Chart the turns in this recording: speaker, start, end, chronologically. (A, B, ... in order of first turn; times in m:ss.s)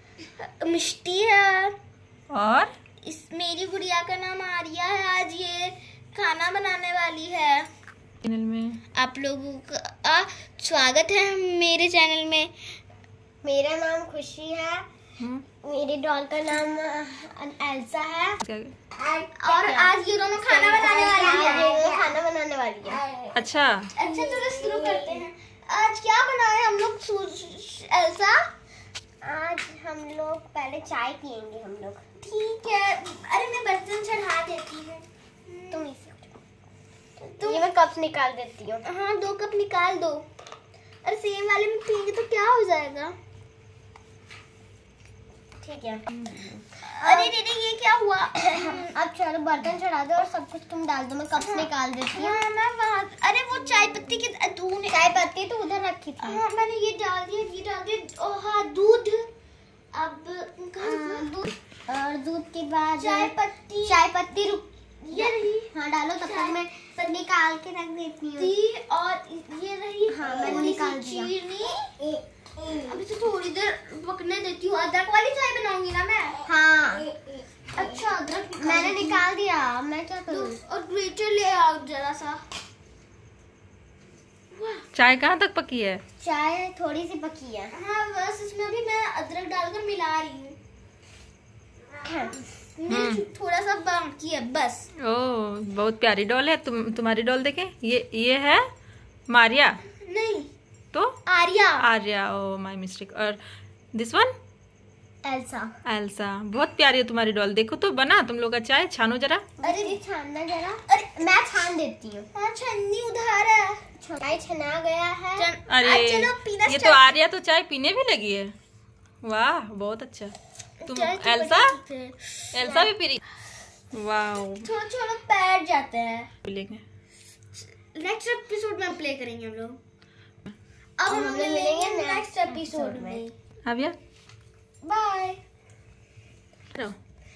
0:00.4-0:01.7 A
0:02.3-0:02.7 B
0:03.0-0:07.7 A
0:08.2-0:08.8 B
0:09.0-0:12.5 A
0:13.4-0:14.9 C
0:15.6-0:18.4 C
0:18.4-0:18.7 B
0:18.9-0:23.1 C
0:19.4-0:22.0 A
0:23.3-0:23.9 B
0:23.9-0:28.5 A
0:24.1-0:25.2 C
0:29.2-0:32.0 C
0:32.2-0:35.9 A
0:35.7-0:36.4 C
0:37.3-0:37.7 A
0:37.4-0:38.8 C
0:38.8-0:40.3 A
0:41.0-0:43.2 A
0:45.6-0:47.3 C
0:46.8-0:49.0 A
0:48.5-0:52.4 C
0:51.4-0:55.2 A
0:54.9-0:56.4 C
0:56.2-0:59.3 A
0:59.9-1:01.5 A
1:00.8-1:03.3 C
1:03.0-1:04.0 A
1:03.8-1:08.5 C
1:05.0-1:06.6 A
1:08.4-1:11.8 A
1:10.1-1:11.3 C
1:12.9-1:16.4 A
1:16.4-1:17.1 C
1:17.7-1:19.2 A
1:18.6-1:20.6 C
1:20.3-1:22.4 A
1:24.5-1:24.9 A
1:24.9-1:26.0 B
1:26.2-1:27.7 C
1:27.7-1:30.6 A
1:32.0-1:32.4 C
1:32.8-1:34.9 A
1:32.9-1:33.2 B
1:35.0-1:38.6 B
1:39.3-1:39.8 B
1:39.9-1:40.5 A
1:41.3-1:41.9 A
1:41.8-1:43.4 B
1:43.9-1:44.3 B
1:45.2-1:45.7 C
1:45.9-1:49.4 B
1:49.6-1:52.3 C
1:49.6-1:50.0 A
1:50.9-1:51.2 A
1:52.3-1:53.8 A
1:54.0-1:55.5 C
1:55.4-1:57.1 A
1:55.7-1:58.5 B
1:59.2-2:00.3 B
2:00.8-2:02.8 A
2:00.9-2:01.8 B
2:02.5-2:03.2 B
2:03.9-2:04.7 B
2:04.6-2:06.3 A
2:06.5-2:06.8 B
2:07.6-2:09.8 A
2:11.0-2:13.3 A
2:11.1-2:13.2 C
2:13.6-2:14.0 B
2:14.8-2:15.3 A